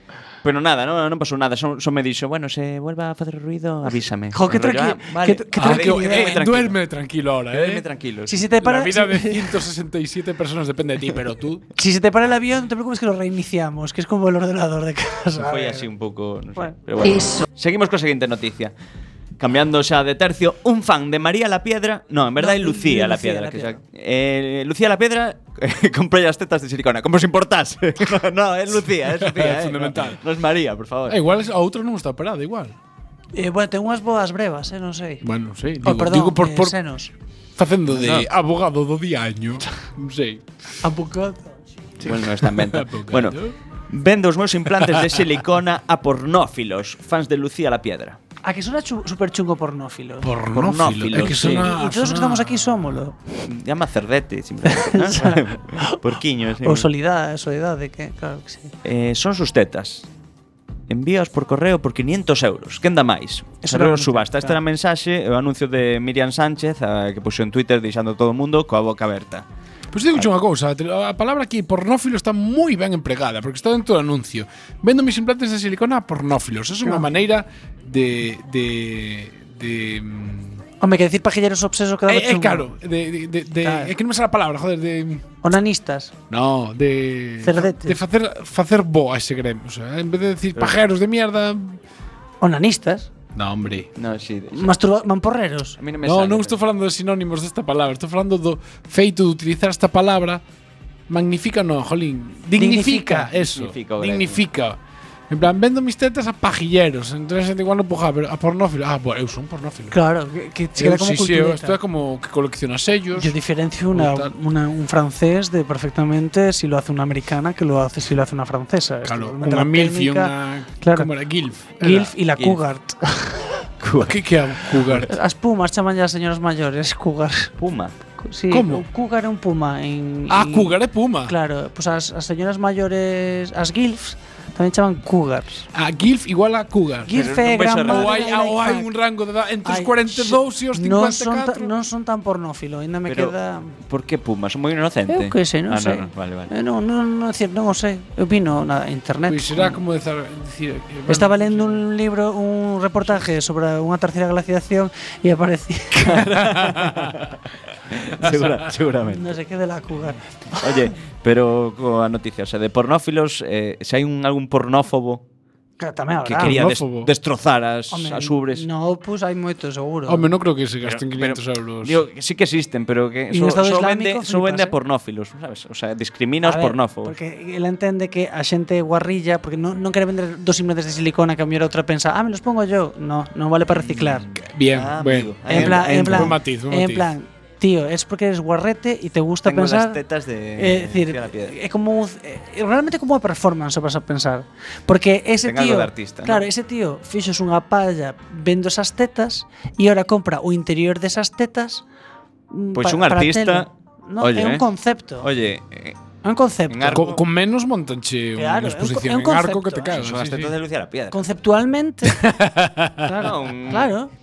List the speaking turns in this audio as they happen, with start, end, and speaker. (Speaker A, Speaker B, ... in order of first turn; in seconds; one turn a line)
Speaker A: 0.4-6.8
Speaker B: 4.3-6.4
Speaker C: 5.5-7.8
Speaker A: 7.5-8.4
Speaker B: 8.3-9.6
Speaker C: 8.6-11.6
Speaker B: 11.8-15.8
Speaker A: 15.4-18.7
Speaker A: 19.4-31.2
Speaker B: 22.4-23.8
Speaker C: 29.2-30.2
Speaker C: 31.1-32.8
Speaker B: 33.3-35.2
Speaker C: 35.2-36.8
Speaker B: 35.8-37.1
Speaker C: 37.6-40.4
Speaker A: 37.9-38.3
Speaker B: 40.8-41.6
Speaker C: 42.0-43.5
Speaker A: 42.0-43.4
Speaker A: 43.9-48.2
Speaker B: 48.4-50.3
Speaker C: 50.2-52.6
Speaker A: 50.5-51.7
Speaker B: 51.2-53.2
Speaker A: 53.4-56.9
Speaker B: 54.7-55.9
Speaker B: 56.6-58.7
Speaker A: 58.8-60.1
Speaker A: 60.9-69.5
Speaker B: 63.6-64.6
Speaker C: 69.9-80.6
Speaker B: 80.8-82.7
Speaker C: 82.1-85.2
Speaker B: 83.6-83.9
Speaker B: 85.4-86.1
Speaker C: 86.3-91.8
Speaker B: 87.4-88.0
Speaker B: 92.4-93.1
Speaker C: 93.3-93.9
Speaker A: 93.9-94.7
Speaker B: 94.5-95.8
Speaker A: 95.8-96.6
Speaker C: 96.0-100.4
Speaker C: 101.1-104.8
Speaker B: 102.5-103.3
Speaker A: 103.5-104.4
Speaker C: 105.3-110.0
Speaker B: 109.9-111.8
Speaker C: 110.8-113.3
Speaker B: 113.1-121.1
Speaker C: 113.9-114.3
Speaker C: 119.0-122.1
Speaker B: 121.8-123.5
Speaker A: 123.8-124.2
Speaker C: 124.0-125.1
Speaker B: 125.0-127.5
Speaker A: 127.6-127.9
Speaker B: 128.2-135.7
Speaker C: 128.5-128.8
Speaker C: 130.3-131.3
Speaker C: 135.7-137.1
Speaker B: 137.1-138.9
Speaker A: 137.1-138.3
Speaker C: 137.8-141.7
Speaker B: 139.6-143.7
Speaker A: 143.1-146.5
Speaker B: 145.1-149.8
Speaker C: 149.3-151.8
Speaker B: 151.1-156.1
Speaker A: 156.0-157.4
Speaker C: 156.6-156.9
Speaker A: 157.9-159.3
Speaker B: 159.1-160.3
Speaker A: 160.6-165.2
Speaker B: 165.8-166.6
Speaker A: 166.2-168.7
Speaker C: 166.4-167.1
Speaker B: 167.9-170.3
Speaker C: 170.1-172.0
Speaker A: 170.8-177.1
Speaker B: 173.3-174.8
Speaker B: 176.4-184.2
Speaker C: 184.4-187.1
Speaker A: 184.7-186.3
Speaker B: 185.5-190.0
Speaker A: 189.4-191.5
Speaker B: 190.6-201.8
Speaker A: 195.4-196.5
Speaker B: 202.5-205.3
Speaker A: 202.7-204.7
Speaker A: 205.2-206.0
Speaker B: 206.2-207.1
Speaker A: 206.7-207.2
Speaker C: 206.9-210.5
Speaker B: 208.3-210.0
Speaker A: 209.9-211.2
Speaker B: 211.1-212.2
Speaker C: 212.2-213.0
Speaker B: 213.0-214.1
Speaker A: 213.2-213.9